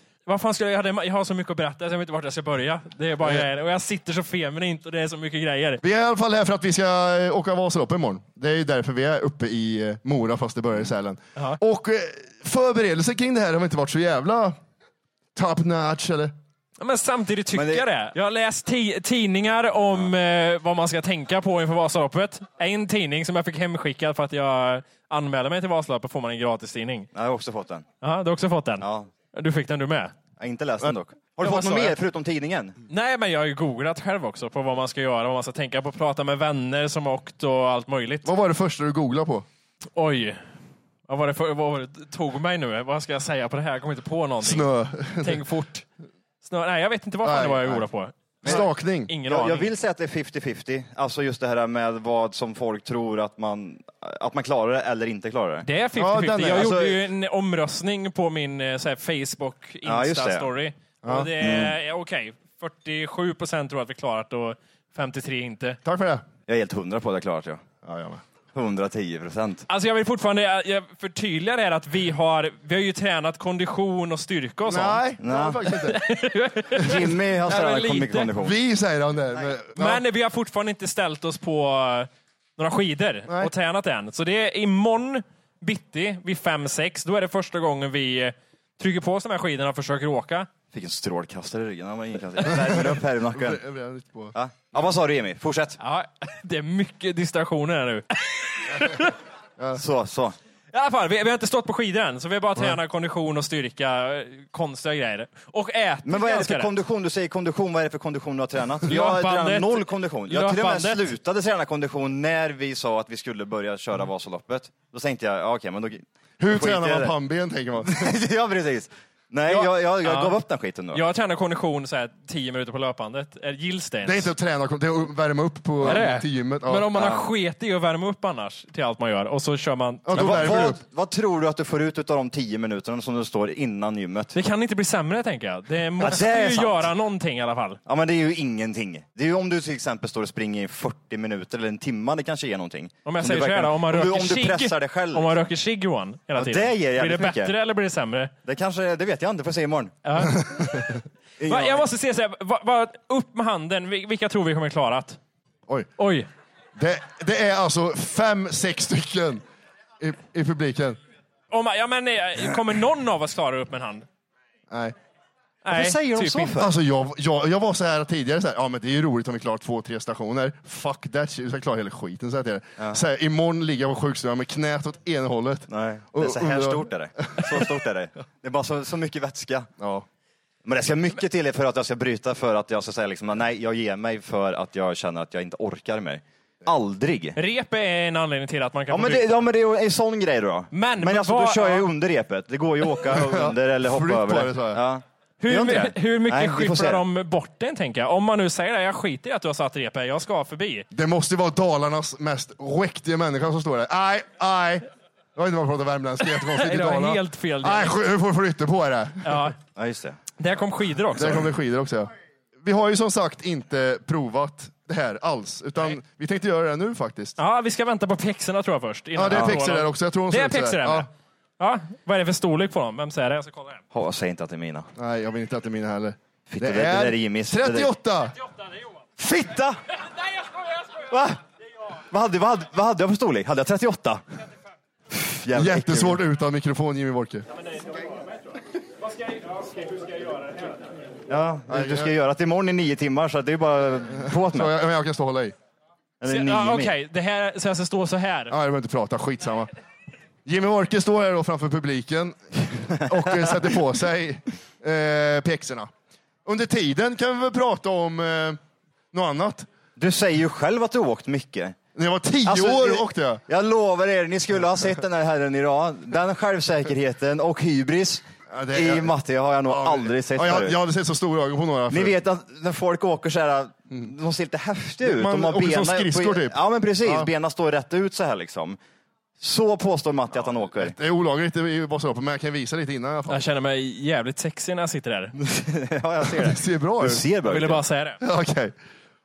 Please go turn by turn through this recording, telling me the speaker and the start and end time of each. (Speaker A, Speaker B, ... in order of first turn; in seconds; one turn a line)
Speaker A: 0.3-5.8
Speaker B: 5.8-14.6
Speaker B: 15.3-16.3
Speaker A: 16.8-27.1
Speaker C: 17.5-17.9
Speaker C: 27.1-27.9
Speaker A: 28.0-30.1
Speaker C: 28.8-29.1
Speaker C: 30.4-32.8
Speaker A: 31.4-31.9
Speaker A: 32.9-38.3
Speaker B: 38.2-39.5
Speaker A: 40.0-40.4
Speaker A: 41.1-44.7
Speaker B: 44.4-45.4
Speaker A: 45.2-45.9
Speaker A: 46.4-49.7
Speaker B: 47.2-47.9
Speaker B: 48.4-49.1
Speaker C: 49.2-55.7
Speaker A: 55.6-65.8
Speaker B: 56.0-56.8
Speaker C: 56.4-57.0
Speaker C: 59.9-60.5
Speaker B: 61.0-61.3
Speaker C: 61.4-61.7
Speaker B: 65.8-66.2
Speaker C: 66.5-67.6
Speaker B: 67.8-68.2
Speaker C: 68.5-69.7
Speaker A: 69.7-75.0
Speaker B: 74.7-76.0
Speaker C: 75.2-75.6
Speaker A: 75.8-78.3
Speaker C: 76.8-78.6
Speaker B: 78.4-80.0
Speaker A: 79.8-90.5
Speaker C: 90.7-93.6
Speaker B: 92.5-94.3
Speaker C: 94.3-95.8
Speaker A: 95.8-99.1
Speaker B: 98.7-99.0
Speaker B: 99.6-99.8
Speaker C: 99.8-100.3
Speaker A: 100.7-106.7
Speaker C: 106.0-117.1
Speaker A: 108.9-111.1
Speaker B: 116.4-118.2
Speaker C: 117.8-121.0
Speaker A: 119.5-120.3
Speaker A: 120.9-124.3
Speaker B: 124.0-126.9
Speaker A: 125.8-130.7
Speaker C: 127.0-127.2
Speaker B: 130.1-130.8
Speaker C: 130.2-134.3
Speaker A: 134.3-137.8
Speaker C: 136.0-136.9
Speaker C: 137.9-145.4
Speaker A: 143.1-148.3
Speaker C: 146.3-147.5
Speaker C: 148.4-149.9
Speaker A: 150.1-150.4
Speaker B: 150.2-151.0
Speaker C: 151.4-151.9
Speaker A: 151.5-155.2
Speaker A: 156.0-156.3
Speaker B: 156.8-159.4
Speaker B: 160.0-161.0
Speaker A: 161.5-164.1
Speaker B: 164.7-165.0
Speaker A: 165.6-166.6
Speaker C: 165.7-166.7
Speaker B: 166.6-177.5
Speaker C: 175.7-179.7
Speaker B: 179.8-180.1
Speaker C: 180.7-187.4
Speaker A: 187.4-189.3
Speaker C: 188.9-197.0
Speaker A: 190.7-191.9
Speaker B: 193.1-194.8
Speaker A: 195.4-200.9
Speaker B: 200.9-209.5
Speaker A: 206.5-208.0
Speaker A: 209.2-209.6
Speaker C: 209.8-210.2
Speaker A: 210.4-211.5
Speaker B: 211.2-212.1
Speaker B: 212.6-217.4
Speaker A: 217.4-221.1
Speaker B: 219.2-221.1
Speaker A: 221.6-223.8
Speaker C: 223.9-224.9
Speaker B: 225.0-228.4
Speaker C: 226.5-227.9
Speaker C: 229.2-229.8
Speaker C: 231.1-231.4
Speaker C: 232.1-234.2
Speaker C: 235.1-236.2
Speaker B: 235.5-237.5
Speaker A: 239.1-240.8
Speaker C: 241.3-244.7
Speaker B: 241.7-242.1
Speaker B: 244.3-245.6
Speaker C: 246.2-246.9
Speaker A: 246.3-248.6
Speaker B: 248.5-249.7
Speaker B: 250.4-255.9
Speaker C: 253.0-253.6
Speaker B: 256.4-258.6
Speaker B: 259.1-259.7
Speaker C: 260.0-261.8
Speaker B: 261.9-263.4
Speaker C: 262.4-270.8
Speaker B: 268.5-269.1
Speaker B: 269.7-272.2
Speaker C: 271.9-278.8
Speaker B: 275.0-277.3
Speaker C: 279.4-280.9
Speaker B: 280.8-283.4
Speaker A: 283.3-285.4
Speaker C: 285.4-287.8
Speaker B: 286.2-287.2
Speaker A: 287.4-288.2
Speaker B: 288.2-288.8